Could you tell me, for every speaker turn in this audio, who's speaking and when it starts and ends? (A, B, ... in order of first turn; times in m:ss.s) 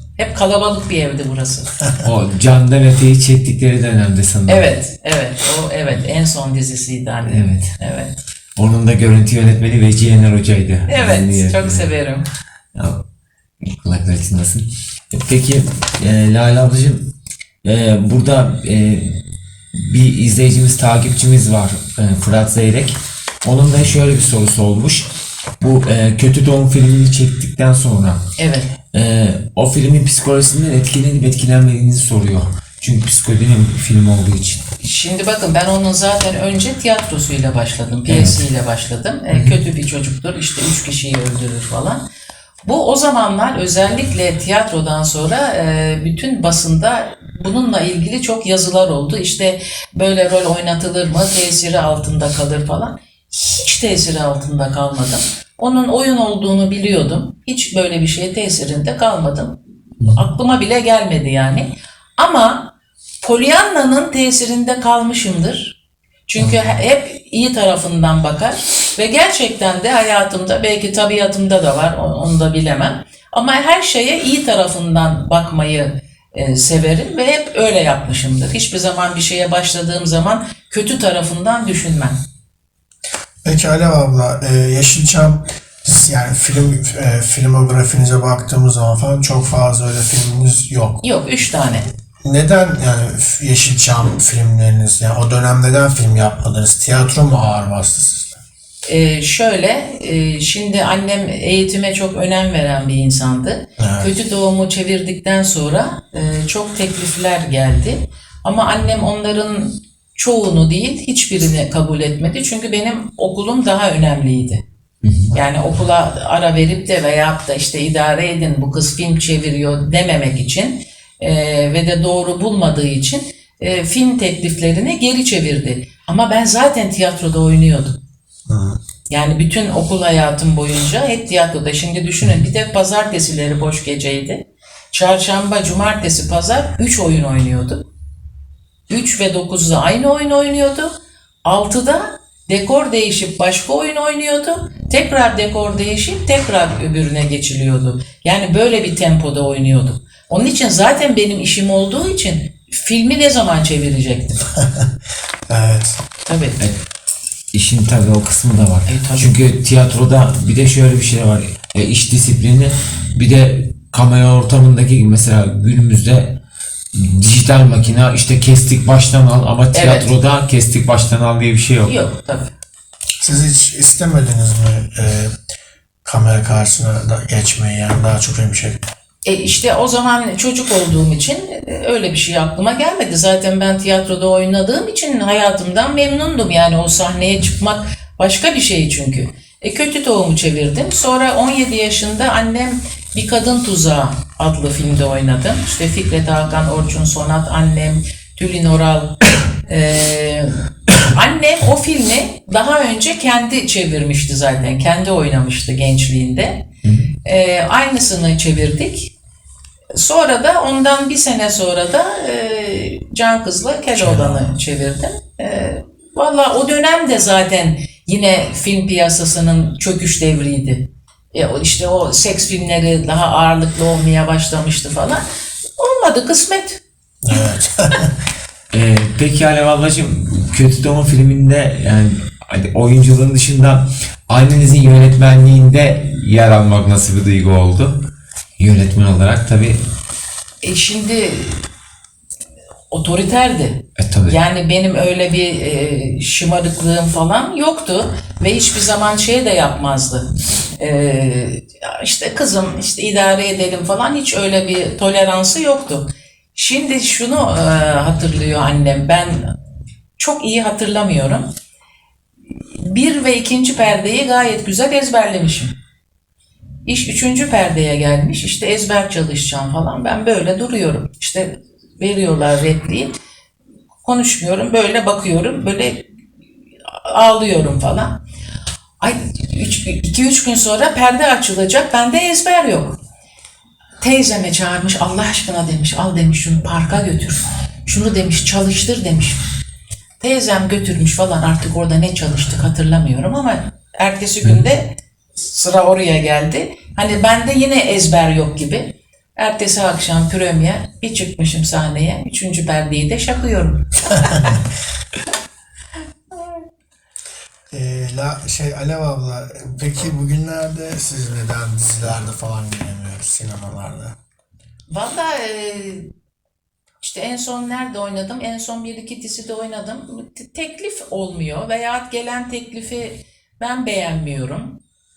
0:00.2-0:01.7 A
0:01.8-0:02.1 B
0:02.0-0:04.7 C
0:04.5-0:08.2 A
0:07.2-0:07.7 C
0:08.6-0:11.9 C
0:10.9-0:12.3 A
0:12.7-0:13.0 C
0:13.6-0:17.1 C
0:17.6-0:19.2 C
0:19.7-0:25.1 C
0:25.6-0:28.2 C
0:28.4-0:28.7 A
0:28.9-0:34.6 C
0:34.8-0:42.0 A
0:38.1-0:38.4 C
0:39.3-0:39.6 C
0:42.6-1:05.8 A
1:06.3-1:22.2 A
1:06.4-1:06.7 B
1:23.4-1:31.0 B
1:31.0-1:31.9 A
1:32.2-1:38.4 B
1:38.9-1:54.6 A
1:43.8-1:44.1 B
1:55.0-1:55.3 C
1:55.3-2:08.0 A
2:08.5-2:08.8 B
2:09.1-2:17.9 A
2:18.9-2:20.9 A
2:21.4-2:34.4 A
2:34.6-2:34.9 B
2:35.5-2:36.0 B
2:36.2-2:36.6 A
2:37.5-2:46.4 C
2:38.9-2:39.4 A
2:46.9-2:52.0 C
2:49.7-2:50.1 A
2:51.8-2:52.5 A
2:53.2-2:55.3 B
2:56.0-2:58.8 B
2:59.2-3:26.6 A
3:26.8-3:27.1 C
3:27.2-3:29.1 A
3:29.9-3:45.2 A
3:34.0-3:34.4 C
3:45.8-3:47.4 A
3:47.2-3:48.1 B
3:48.7-3:59.8 C
4:00.6-4:01.6 A
4:02.9-4:19.5 A
4:04.0-4:04.4 C
4:20.2-4:21.5 A
4:22.6-4:25.7 A
4:26.8-4:33.1 A
4:34.0-4:36.1 A
4:36.9-4:38.2 A
4:39.0-4:43.0 A
4:44.0-4:49.4 A
4:50.2-5:04.6 A
5:04.2-5:04.6 B
5:07.7-5:14.2 B
5:14.9-5:16.1 A
5:17.0-5:24.8 A